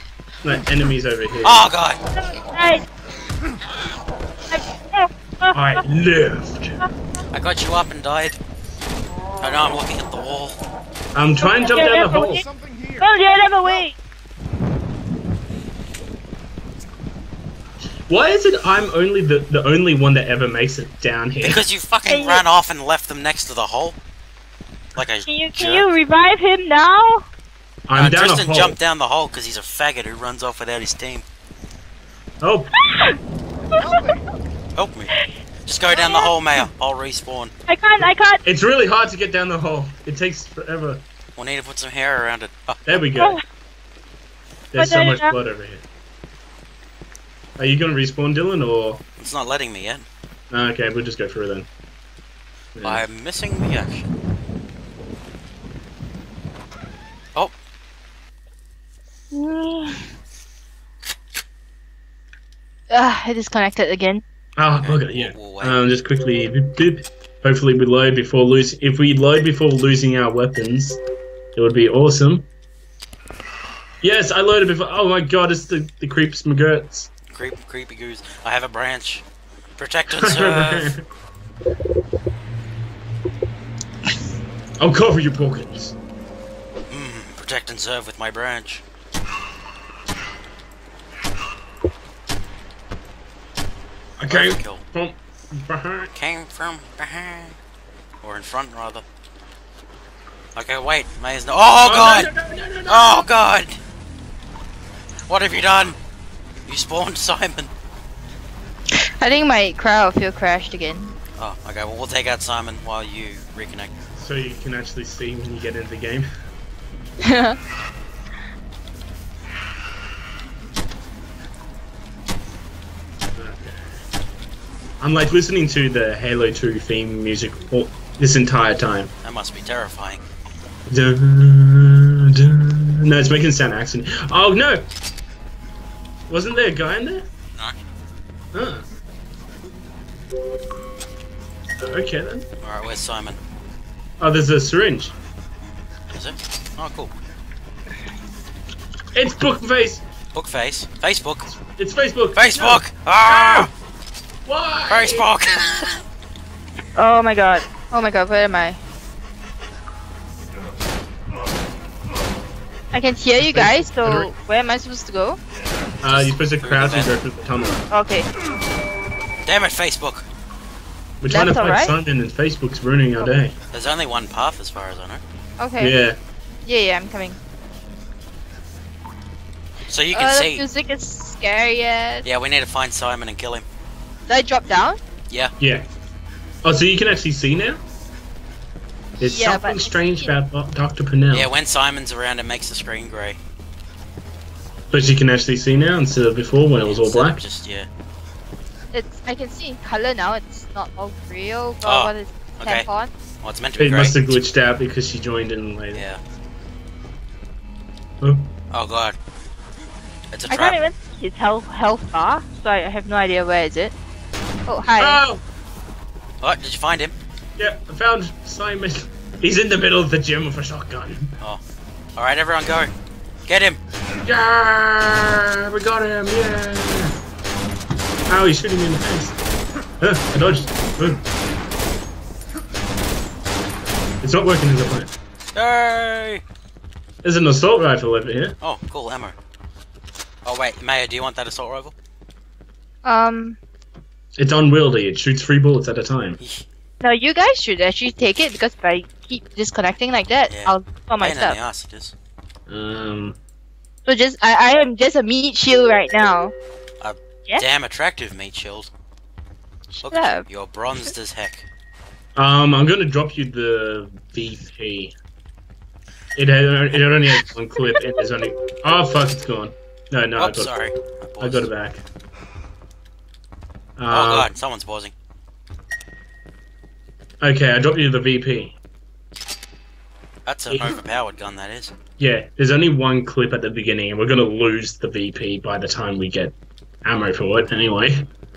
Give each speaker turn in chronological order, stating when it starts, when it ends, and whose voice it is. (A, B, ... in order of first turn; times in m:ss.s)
0:00.4-0:01.7 A
0:01.4-0:02.0 B
0:02.2-0:02.8 C
0:04.5-0:05.8 C
0:05.5-0:06.8 A
0:07.3-0:08.4 B
0:09.4-0:10.6 B
0:11.2-0:12.4 A
0:11.4-0:12.4 C
0:13.0-0:14.0 C
0:18.1-0:21.6 A
0:21.4-0:24.0 B
0:22.1-0:22.4 C
0:25.0-0:25.9 B
0:25.3-0:27.2 C
0:27.9-0:28.8 A
0:28.0-0:31.2 B
0:32.4-0:32.7 A
0:32.8-0:33.2 C
0:33.7-0:34.2 C
0:34.8-0:37.5 B
0:35.9-0:36.6 C
0:37.7-0:38.4 C
0:38.0-0:41.0 A
0:41.4-0:43.0 B
0:42.9-0:43.4 A
0:43.2-0:43.4 C
0:44.7-0:45.8 A
0:44.8-0:45.3 C
0:47.6-0:49.0 A
0:49.2-0:50.1 B
0:50.5-0:51.7 A
0:52.8-0:53.0 A
0:52.8-0:54.1 B
0:59.3-1:00.1 C
1:02.9-1:04.2 C
1:04.6-1:11.0 A
1:04.8-1:05.8 B
1:11.6-1:12.5 A
1:14.0-1:17.1 A
1:17.3-1:19.2 B
1:19.8-1:20.9 B
1:20.1-1:21.0 A
1:24.8-1:26.0 A
1:26.9-1:28.8 B
1:34.2-1:36.1 A
1:34.3-1:34.8 B
1:36.2-1:37.6 B
1:38.2-1:39.0 B
1:40.6-1:42.3 B
1:41.8-1:43.3 A
1:42.9-1:43.8 B
1:45.3-1:46.0 B
1:46.7-1:47.7 B
1:48.9-1:51.1 C
1:51.4-1:54.0 B
1:54.2-1:56.3 A
1:57.2-1:57.6 C
2:03.3-2:03.8 A
2:05.0-2:09.1 A
2:09.2-2:10.2 B
2:10.9-2:14.9 A
2:16.3-2:17.3 A
2:18.5-2:18.9 A
2:21.8-2:22.5 A
2:22.6-2:23.4 B
2:24.2-2:25.1 A
2:26.1-2:27.1 B
2:29.2-2:30.0 A
2:30.3-2:31.5 B
2:31.5-2:33.7 A
2:32.4-2:33.7 B
2:34.5-2:35.3 A
2:34.9-2:36.0 B
2:37.0-2:38.8 C
2:42.9-2:45.4 C
2:43.4-2:44.3 A
2:46.0-2:47.8 A
2:46.1-2:47.1 B
2:47.9-2:48.3 C
2:49.4-2:50.3 B
2:51.2-2:53.6 A
2:51.3-2:52.0 C
2:53.7-2:55.2 B
2:55.6-2:55.9 C
2:55.8-2:56.2 A
2:56.7-2:57.4 C
2:59.9-3:00.6 B
3:00.1-3:02.2 C
3:02.2-3:03.7 B
3:04.3-3:05.0 C
3:05.6-3:05.9 A
3:06.6-3:07.8 A
3:09.2-3:11.5 A
3:09.2-3:10.3 C
3:11.3-3:13.4 B
3:14.9-3:17.4 A
3:16.8-3:17.9 B
3:18.9-3:23.1 C
3:21.8-3:22.9 B
3:23.4-3:24.4 B
3:23.8-3:26.0 A
3:25.9-3:26.2 B
3:28.2-3:28.5 A
3:28.7-3:29.2 B
3:30.3-3:30.8 B
3:30.5-3:33.9 C
3:34.7-3:35.2 C
3:35.0-3:35.4 A
3:36.4-3:37.2 B
3:37.6-3:41.3 A
3:42.2-3:42.9 B
3:43.5-3:43.8 B
3:44.2-3:47.2 A
3:48.3-3:49.4 A
3:50.0-3:51.2 A
3:54.2-3:55.1 A
3:55.6-3:56.4 B
3:57.2-3:58.6 A
3:58.6-3:59.4 B
4:00.4-4:01.9 B
4:03.0-4:03.6 C
4:04.4-4:06.4 A
4:06.4-4:06.6 B
4:07.0-4:11.6 C
4:10.5-4:12.2 B
4:12.7-4:13.4 A
4:14.1-4:16.5 C
4:17.0-4:18.9 B
4:19.9-4:20.4 C
4:20.0-4:21.7 B
4:22.4-4:25.1 A
4:26.4-4:30.7 A
4:30.4-4:31.7 B
4:31.4-4:32.0 A
4:34.0-4:34.5 A
4:34.1-4:35.1 B
4:37.4-4:38.8 A
4:40.5-4:41.9 B
4:40.7-4:41.0 A
4:42.2-4:48.3 A